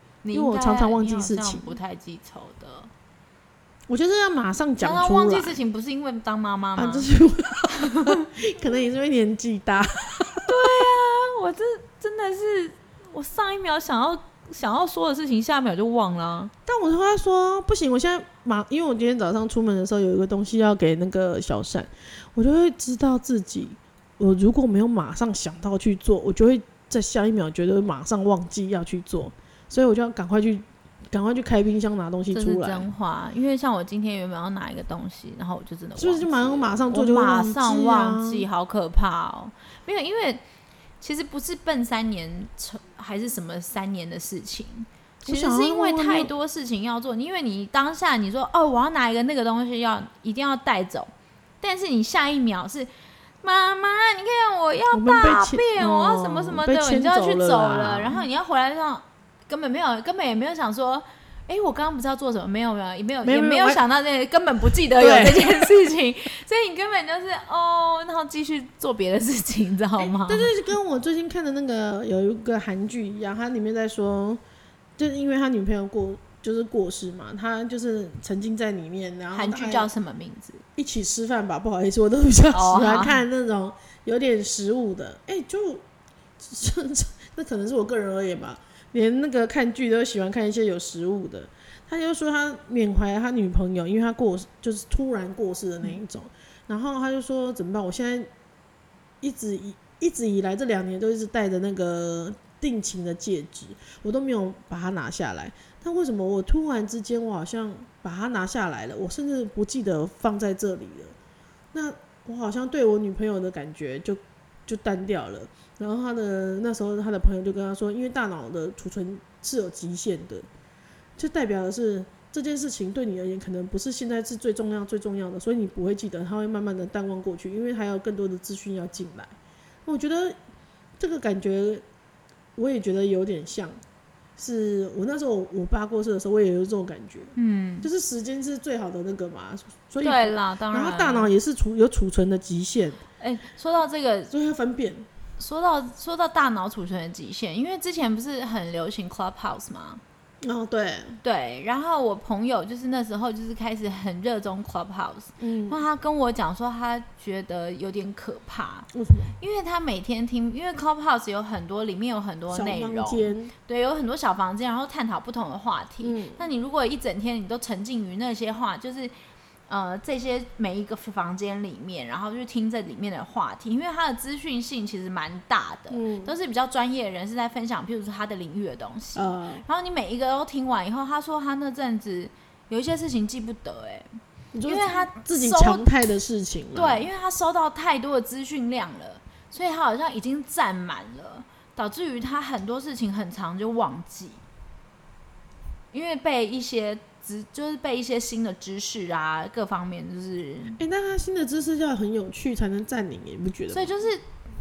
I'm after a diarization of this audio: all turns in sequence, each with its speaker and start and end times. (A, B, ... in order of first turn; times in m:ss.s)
0:00.2-0:02.9 A
0:00.3-0:01.8 B
0:03.9-0:05.6 B
0:04.8-0:07.1 A
0:06.8-0:10.5 B
0:07.7-0:08.2 A
0:10.4-0:16.5 A
0:16.6-0:32.9 B
0:32.3-0:40.4 A
0:36.0-0:38.4 B
0:41.0-0:52.9 A
0:45.2-0:46.3 B
0:53.4-1:10.5 A
0:54.9-0:58.2 B
1:03.2-1:03.8 B
1:05.0-1:05.7 B
1:10.0-1:14.4 B
1:15.0-1:19.9 B
1:19.3-1:20.6 A
1:20.8-1:25.8 B
1:22.5-1:23.2 A
1:26.4-1:38.3 B
1:39.2-1:51.1 B
1:51.7-2:00.5 B
2:01.2-2:10.4 B
2:11.0-2:11.8 B
2:12.6-2:13.8 B
2:14.4-2:23.0 B
2:17.3-2:17.9 A
2:20.0-2:21.3 A
2:23.2-2:24.3 A
2:24.3-2:25.1 B
2:25.4-2:30.0 A
2:30.4-2:31.2 B
2:31.2-2:38.9 A
2:35.4-2:35.8 B
2:38.9-2:39.3 B
2:39.4-2:49.1 A
2:42.5-2:43.5 B
2:46.0-2:46.4 B
2:49.7-3:04.1 A
2:55.9-2:56.3 B
2:59.2-2:59.6 B
3:04.5-3:07.1 B
3:04.7-3:05.8 A
3:06.7-3:14.4 A
3:15.9-3:20.8 A
3:20.8-3:23.9 B
3:23.7-3:24.2 A